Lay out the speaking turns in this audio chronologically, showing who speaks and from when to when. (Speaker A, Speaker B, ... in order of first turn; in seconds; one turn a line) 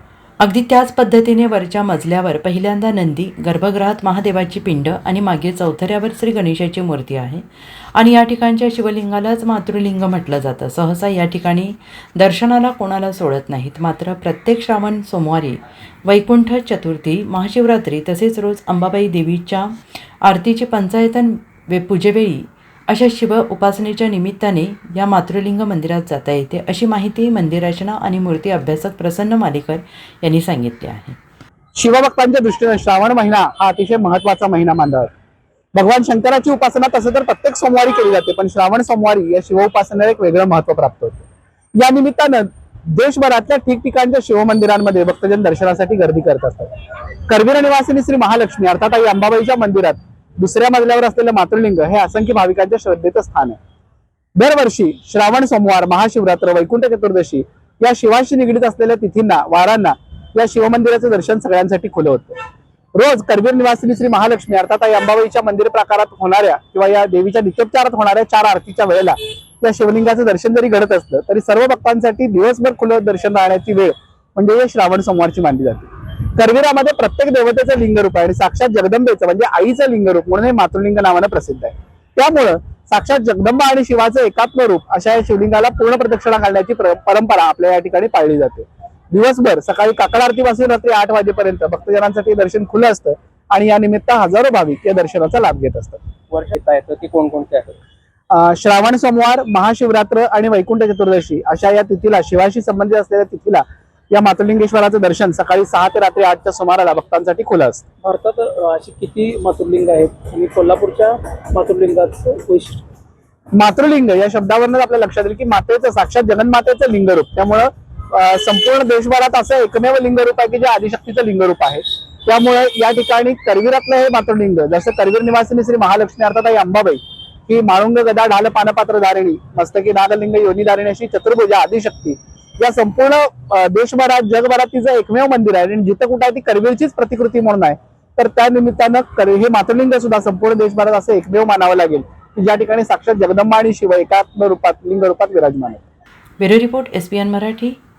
Speaker A: 0.4-7.4
Speaker A: 8.0-19.7
Speaker A: 20.2-31.2
Speaker B: 31.8-35.1
Speaker B: 35.7-41.2
Speaker B: 41.8-46.7
Speaker B: 47.3-53.6
Speaker B: 54.4-62.4
Speaker B: 63.0-96.0
Speaker C: 96.3-97.8
Speaker B: 98.3-107.8
Speaker C: 108.0-112.8
Speaker B: 113.5-145.8
Speaker A: 146.4-147.8